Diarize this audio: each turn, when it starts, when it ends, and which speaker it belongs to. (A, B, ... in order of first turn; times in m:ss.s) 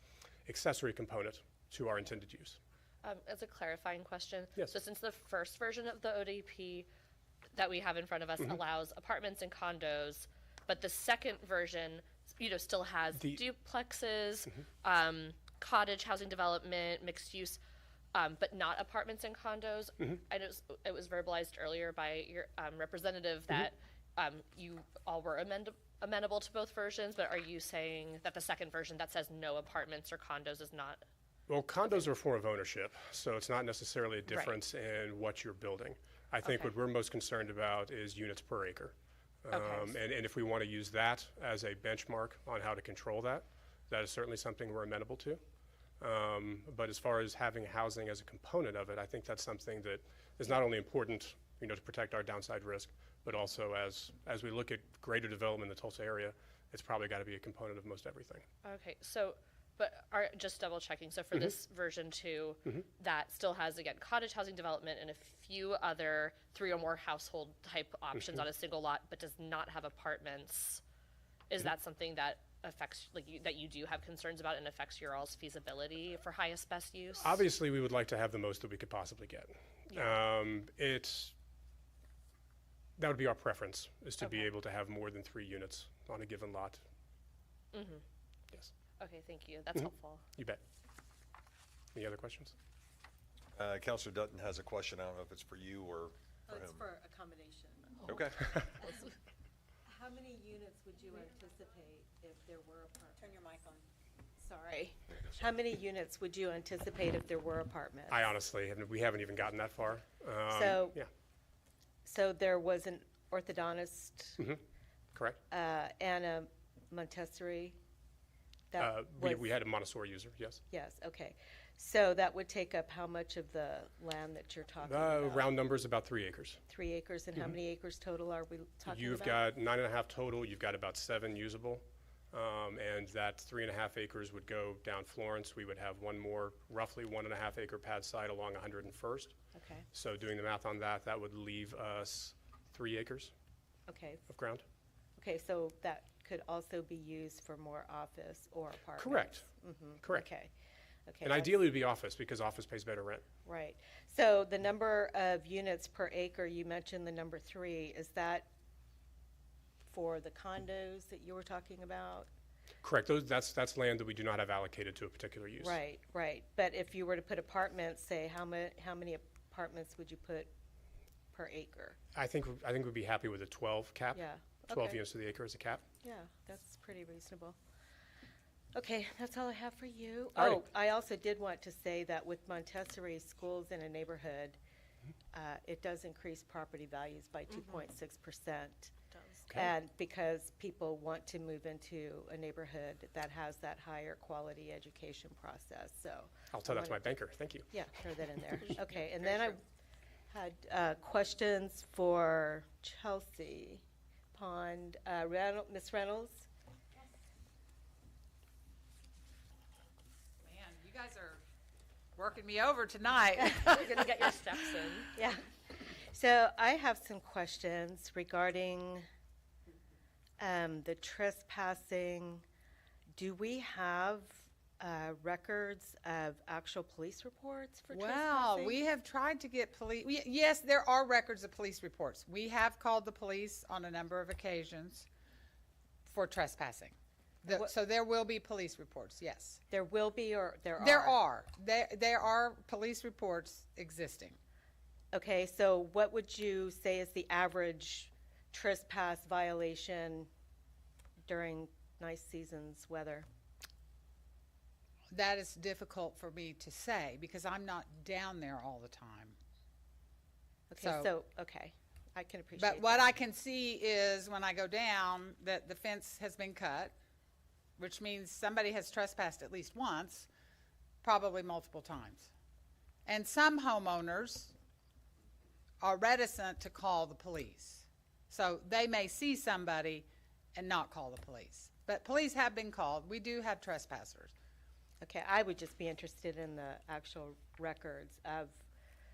0:00.4-0:02.6 A
0:03.0-0:06.9 B
0:07.5-0:17.6 B
0:18.1-0:31.0 B
0:31.5-0:38.9 A
0:34.3-0:34.5 B
0:36.4-0:36.7 B
0:39.4-0:45.4 A
0:39.5-0:40.0 B
0:46.0-0:58.4 A
0:58.6-1:10.8 B
1:11.5-1:17.4 B
1:17.2-1:21.3 A
1:23.0-1:26.8 A
1:27.7-1:28.0 B
1:29.0-1:30.2 B
1:31.9-1:32.5 A
1:33.5-1:36.8 C
1:36.5-1:39.0 D
1:38.1-1:38.4 C
1:39.9-1:43.4 D
1:43.4-1:43.8 E
1:44.4-1:48.2 D
1:48.1-1:51.1 A
1:50.5-1:51.0 D
1:52.0-1:54.4 D
1:55.5-1:57.8 D
1:58.7-1:59.5 D
1:58.8-2:00.6 A
2:00.7-2:05.5 D
2:04.8-2:06.6 A
2:06.7-2:09.4 D
2:08.9-2:19.3 A
2:19.5-2:19.8 D
2:19.9-2:23.3 A
2:23.9-2:24.2 D
2:24.3-2:24.6 A
2:25.2-2:30.5 D
2:29.0-2:29.4 A
2:31.1-2:31.6 D
2:31.2-2:33.2 A
2:33.4-2:38.5 D
2:39.8-2:42.3 D
2:42.8-2:45.8 A
2:45.6-2:50.5 D
2:51.3-2:52.0 D
2:52.1-2:55.8 A
2:54.1-2:55.0 D
2:56.0-2:57.6 D
2:58.7-3:04.6 D
3:00.4-3:00.6 A
3:05.3-3:08.9 D
3:09.1-3:09.4 B
3:09.5-3:17.2 D
3:16.5-3:17.7 A
3:17.7-3:19.6 D
3:20.3-3:26.5 D
3:30.4-3:31.4 E
3:32.2-3:33.9 E
3:33.5-3:35.1 B
3:35.1-3:39.0 D
3:40.4-3:42.4 D
3:43.1-3:48.8 D
3:47.9-3:55.1 E
3:56.0-3:59.6 E
3:59.7-4:01.2 D
4:00.8-4:04.4 E
4:05.1-4:10.3 D
4:11.3-4:13.3 D
4:15.1-4:19.4 E
4:20.7-4:23.1 D
4:20.8-4:21.1 E
4:22.6-4:26.9 E
4:27.8-4:30.3 E
4:31.0-4:32.3 E
4:33.0-4:34.5 E
4:35.8-4:44.3 E
4:45.0-4:48.6 D